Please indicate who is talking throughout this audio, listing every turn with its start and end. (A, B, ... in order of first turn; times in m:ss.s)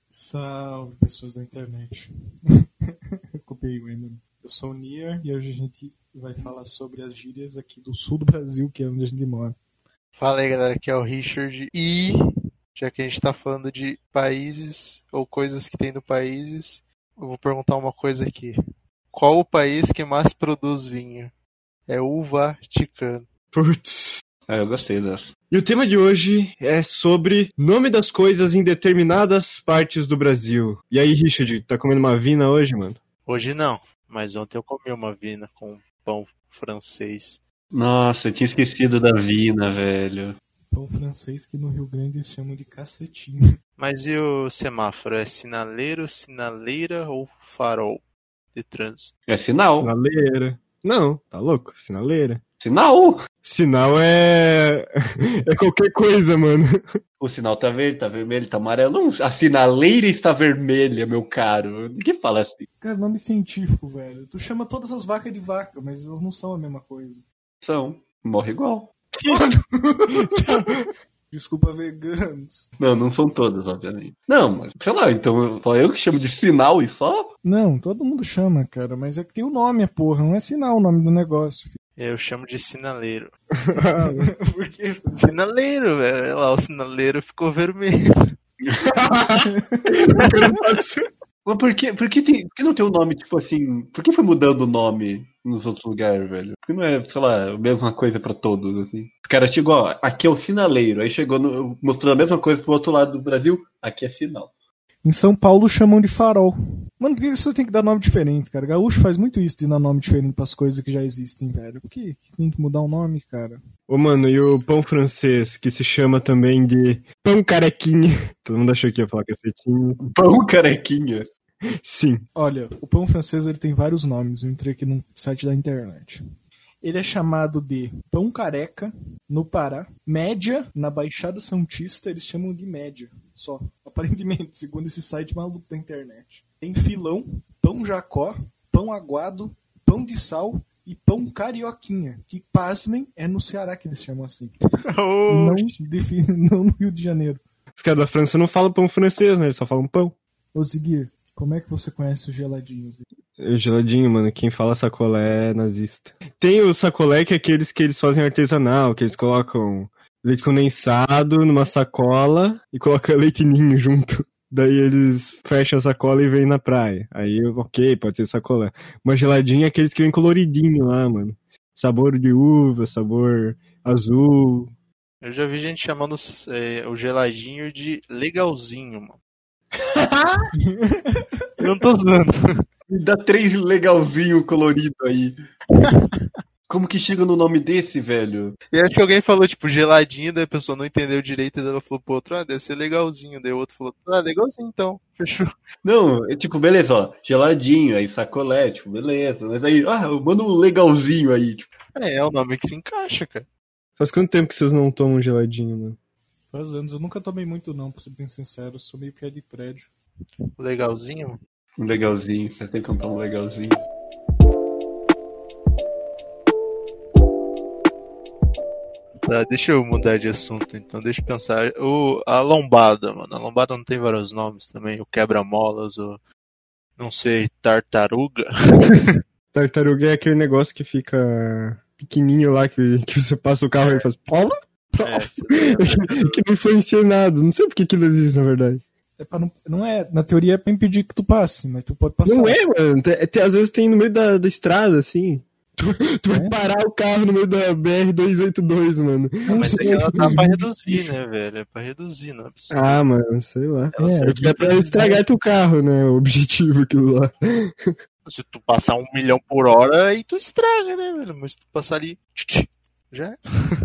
0:00.1-0:02.1 A
0:03.4-0:09.6 A
0:10.2-0:12.2 B
0:12.8-0:18.6 B
0:19.1-0:21.3 B
0:21.9-0:23.3 B
0:23.5-0:24.2 C
0:24.5-0:25.3 D
0:25.5-0:33.0 C
0:33.3-0:37.4 B
0:37.7-0:40.4 D
0:40.7-0:43.4 A
0:43.8-0:48.0 B
0:48.5-0:49.1 B
0:49.3-0:49.9 D
0:49.8-0:52.4 C
0:52.6-0:53.2 D
0:53.4-0:54.9 C
0:55.5-0:56.8 C
0:57.2-1:02.7 D
1:02.8-1:07.2 A
1:07.6-1:08.9 D
1:09.2-1:10.7 A
1:10.1-1:10.7 C
1:11.3-1:12.7 A
1:12.8-1:17.3 D
1:17.4-1:21.7 A
1:22.0-1:23.3 B
1:23.6-1:24.3 C
1:24.0-1:25.4 A
1:25.2-1:28.1 B
1:29.1-1:31.0 C
1:29.4-1:29.9 A
1:31.4-1:44.5 D
1:45.0-1:53.6 A
1:53.9-2:00.0 C
2:00.0-2:01.3 D
2:01.8-2:02.2 C
2:02.4-2:06.2 A
2:06.8-2:24.6 A
2:24.9-2:25.7 B
2:25.3-2:27.4 A
2:27.8-2:30.2 C
2:30.5-2:33.0 A
2:33.4-2:54.7 C
2:55.2-2:59.2 B
3:00.6-3:01.3 A
3:01.6-3:02.4 B
3:02.9-3:05.4 D
3:06.7-3:08.6 D
3:08.7-3:15.5 B
3:15.8-3:21.7 D
3:21.9-3:23.5 B
3:24.0-3:26.0 C
3:26.5-3:29.9 A
3:30.6-3:31.4 B
3:31.8-3:33.8 D
3:39.2-3:46.2 B
3:47.0-3:49.1 B
3:49.5-3:58.8 C
3:53.8-3:54.1 B
3:55.0-3:56.4 B
3:59.2-4:02.6 A
4:02.2-4:10.4 C
4:09.4-4:11.2 A
4:09.5-4:13.0 B
4:12.7-4:17.9 C
4:14.0-4:14.7 D
4:14.0-4:15.2 A
4:18.3-4:23.4 B